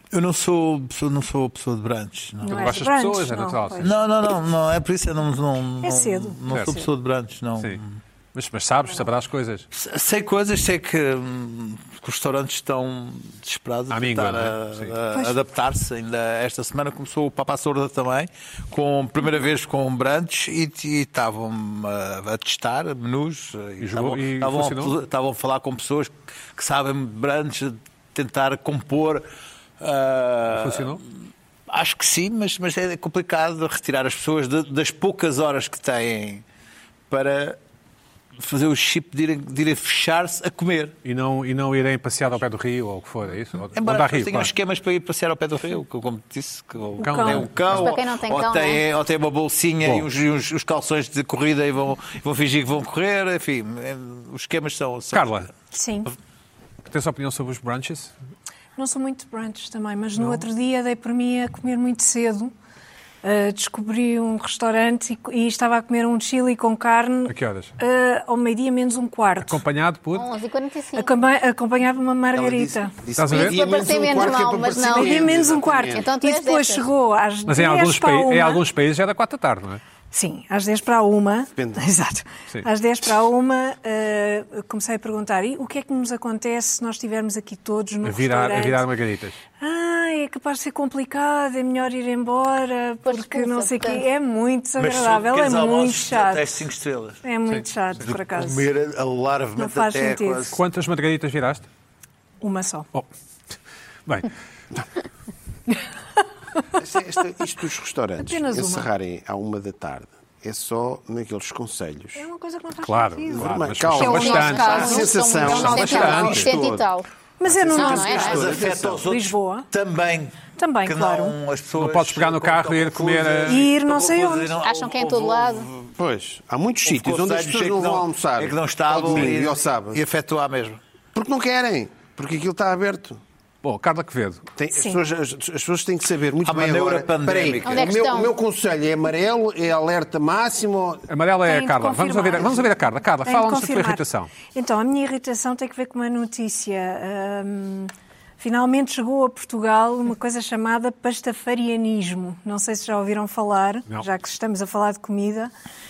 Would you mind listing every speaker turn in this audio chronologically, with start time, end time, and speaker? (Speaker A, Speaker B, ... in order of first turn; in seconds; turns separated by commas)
Speaker A: 0.1-2.8, Speaker B: 2.4-3.9, Speaker C: 2.4-3.9, Speaker A: 3.8-8.0, Speaker B: 5.8-6.9, Speaker C: 6.5-6.8, Speaker C: 8.3-9.7, Speaker A: 9.7-29.3, Speaker C: 13.9-14.9, Speaker C: 23.8-24.9, Speaker A: 29.8-31.0, Speaker C: 30.5-31.0, Speaker A: 31.7-36.4, Speaker A: 37.1-37.6, Speaker A: 38.4-40.9, Speaker C: 41.0-44.5, Speaker A: 43.7-55.4, Speaker C: 47.0-47.5, Speaker B: 47.0-47.5, Speaker D: 47.7-48.8, Speaker C: 55.1-55.5, Speaker B: 55.7-56.1, Speaker C: 56.9-58.1, Speaker B: 58.8-62.5, Speaker C: 60.2-60.4, Speaker B: 63.2-69.6, Speaker C: 67.3-67.7, Speaker C: 69.4-70.3, Speaker D: 70.1-71.1, Speaker B: 71.0-72.9, Speaker E: 72.3-76.1, Speaker C: 73.2-73.6, Speaker D: 73.3-75.3, Speaker B: 74.8-78.6, Speaker D: 75.9-76.8, Speaker C: 77.5-79.8, Speaker B: 80.1-88.9, Speaker E: 81.5-81.8, Speaker C: 88.0-89.4, Speaker B: 89.6-96.5, Speaker D: 93.0-94.1, Speaker A: 94.8-97.2, Speaker B: 97.2-98.7, Speaker C: 97.5-98.1, Speaker A: 98.1-100.6, Speaker B: 99.6-100.5, Speaker C: 100.5-101.7, Speaker B: 102.4-102.9, Speaker E: 106.8-112.2, Speaker B: 108.2-108.9, Speaker B: 112.2-116.3, Speaker C: 112.8-116.5, Speaker E: 113.3-116.8, Speaker D: 114.0-117.1, Speaker A: 115.6-116.8, Speaker B: 117.4-118.5, Speaker E: 117.5-119.0, Speaker D: 117.7-118.4, Speaker A: 117.7-125.9, Speaker B: 119.0-119.7, Speaker B: 120.5-121.4, Speaker C: 121.7-123.7, Speaker B: 123.5-124.5, Speaker D: 124.6-125.7, Speaker E: 126.0-130.0, Speaker A: 126.8-130.8, Speaker E: 131.1-133.2, Speaker C: 133.6-134.4, Speaker E: 134.6-141.1, Speaker B: 134.7-135.0, Speaker A: 136.4-137.9, Speaker D: 137.6-138.3, Speaker C: 141.1-144.3, Speaker B: 141.4-155.5